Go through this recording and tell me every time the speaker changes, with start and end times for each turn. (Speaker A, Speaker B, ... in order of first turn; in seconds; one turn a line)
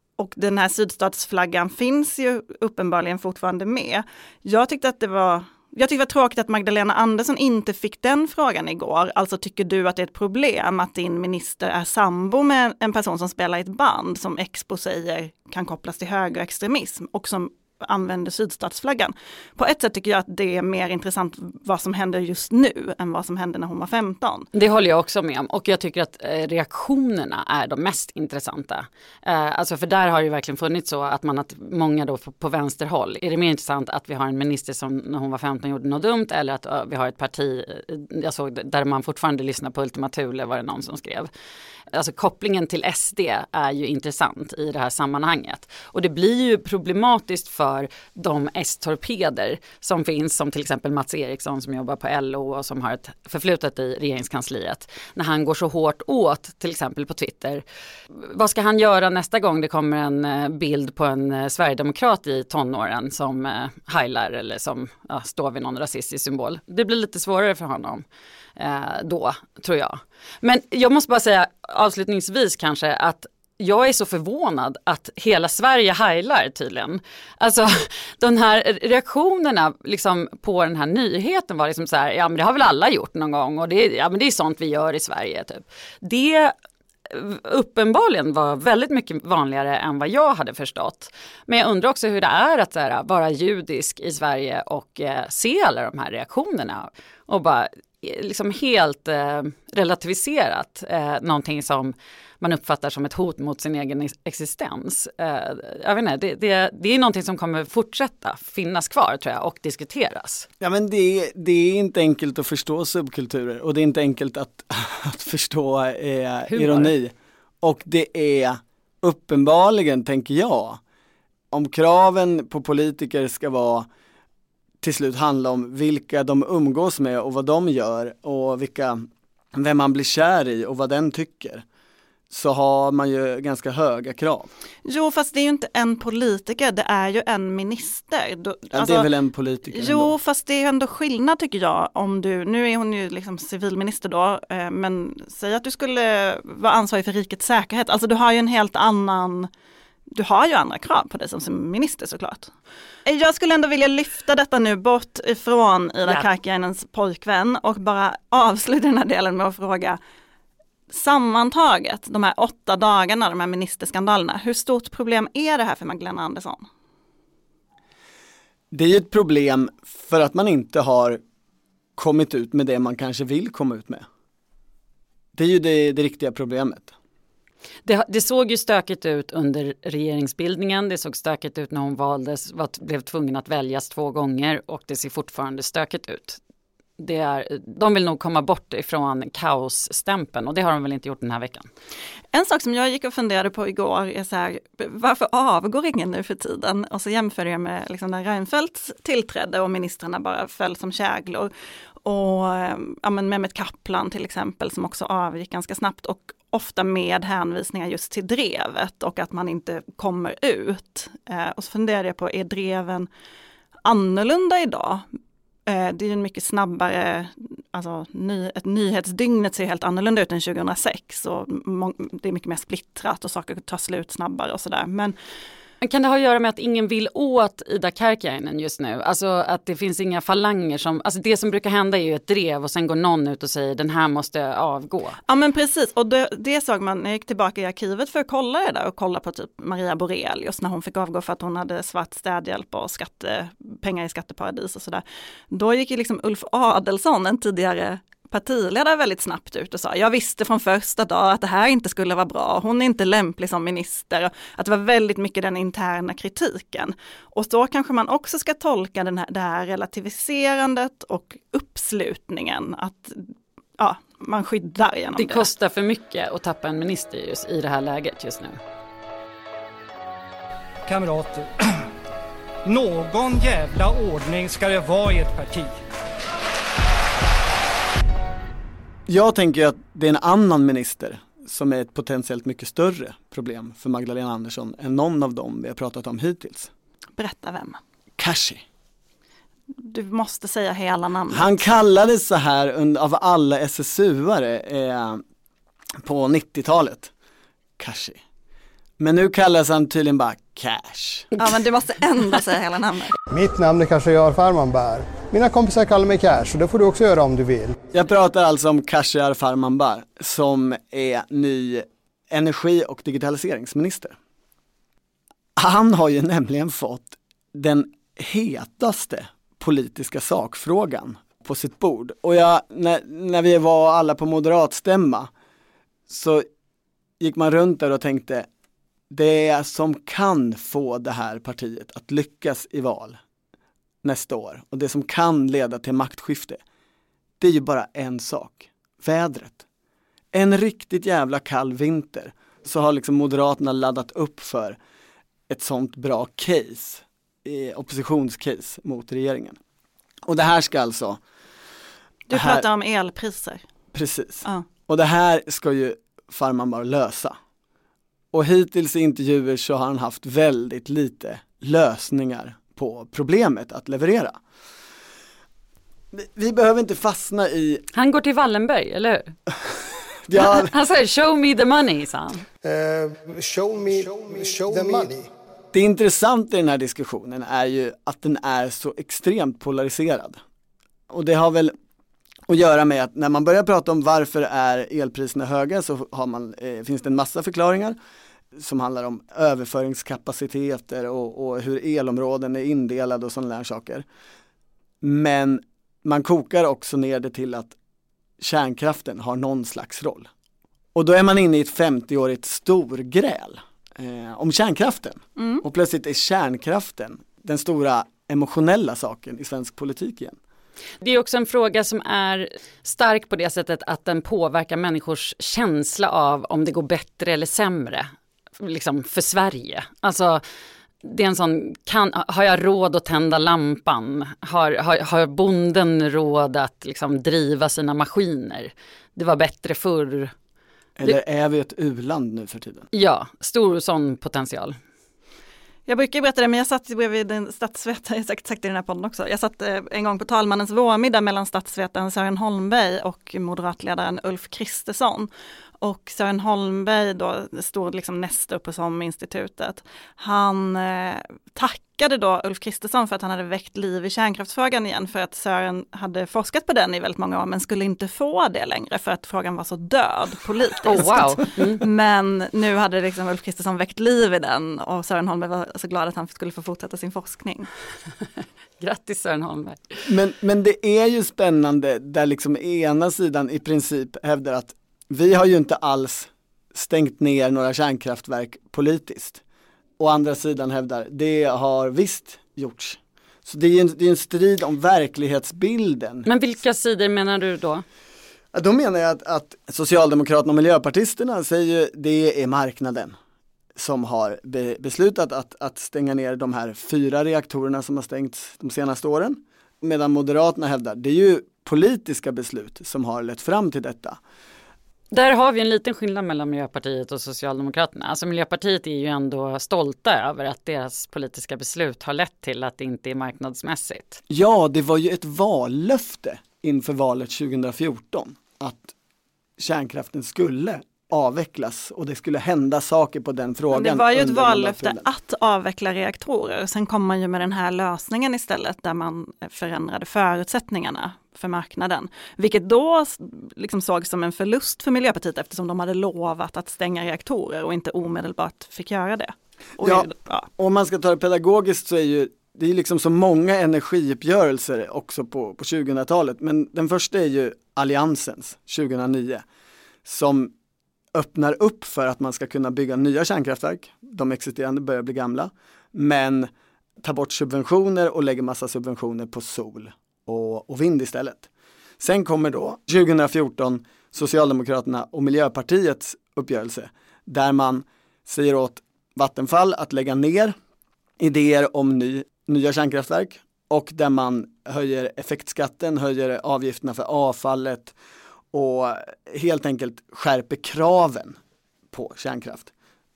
Speaker A: 0.2-24.5
Speaker B: 24.5-41.3
Speaker B: 41.9-57.6
Speaker B: 58.1-68.0
Speaker B: 68.6-86.5
Speaker B: 87.1-110.5
Speaker C: 110.6-120.8
Speaker B: 116.5-116.9
Speaker C: 121.5-123.9
Speaker C: 124.8-131.7
Speaker C: 132.3-134.5
Speaker A: 134.9-139.1
Speaker C: 138.7-140.1
Speaker A: 139.7-149.5
Speaker A: 150.1-152.5
Speaker A: 153.1-160.0
Speaker A: 160.9-166.7
Speaker C: 168.7-171.2
Speaker C: 172.0-174.1
Speaker C: 175.3-176.9
Speaker B: 177.9-186.4
Speaker B: 187.0-191.7
Speaker A: 192.3-201.5
Speaker A: 202.1-213.1
Speaker A: 213.8-215.1
Speaker A: 215.7-225.2
Speaker B: 225.8-235.2
Speaker A: 235.3-265.5
Speaker B: 265.2-268.6
Speaker D: 270.9-271.5
Speaker D: 272.7-275.7
Speaker C: 279.1-286.7
Speaker A: 287.2-287.8
Speaker C: 288.2-288.6
Speaker A: 289.8-291.6
Speaker C: 291.3-295.2
Speaker C: 296.0-297.1
Speaker C: 297.8-298.2
Speaker C: 299.0-301.3
Speaker A: 301.4-303.1
Speaker E: 303.3-307.8
Speaker C: 307.9-314.2
Speaker C: 315.6-325.3
Speaker C: 326.1-326.5
Speaker C: 327.2-328.5
Speaker C: 329.1-333.2
Speaker C: 334.0-336.6
Speaker C: 337.4-339.6
Speaker C: 340.3-344.8
Speaker C: 345.5-349.6
Speaker C: 350.3-351.2
Speaker A: 352.3-353.6
Speaker C: 352.3-352.6
Speaker C: 353.9-357.4
Speaker C: 358.3-364.4
Speaker C: 366.1-367.9
Speaker B: 367.9-369.4
Speaker C: 370.3-370.8
Speaker B: 370.3-372.4
Speaker E: 372.6-375.3
Speaker C: 375.7-380.4
Speaker C: 381.1-381.7
Speaker C: 382.5-388.0
Speaker C: 388.6-394.1
Speaker C: 395.0-397.8
Speaker C: 398.4-400.3
Speaker C: 400.9-410.4
Speaker A: 405.4-405.6
Speaker B: 411.0-418.1
Speaker B: 418.6-420.4
Speaker B: 421.0-430.3
Speaker C: 431.0-432.9
Speaker B: 432.9-434.8
Speaker A: 435.9-445.3
Speaker A: 445.8-467.7
Speaker B: 460.9-461.8
Speaker B: 468.8-470.0
Speaker C: 470.1-479.4
Speaker C: 480.0-486.3
Speaker B: 486.3-487.9
Speaker C: 488.5-493.2
Speaker C: 493.8-504.2
Speaker B: 505.1-514.2
Speaker C: 514.3-518.9
Speaker C: 519.6-525.1
Speaker A: 523.7-540.5
Speaker C: 539.8-549.4
Speaker C: 550.0-550.5
Speaker C: 551.1-556.5
Speaker C: 557.0-561.5
Speaker C: 562.0-570.6
Speaker C: 571.2-578.0
Speaker C: 578.5-581.4
Speaker C: 581.9-582.7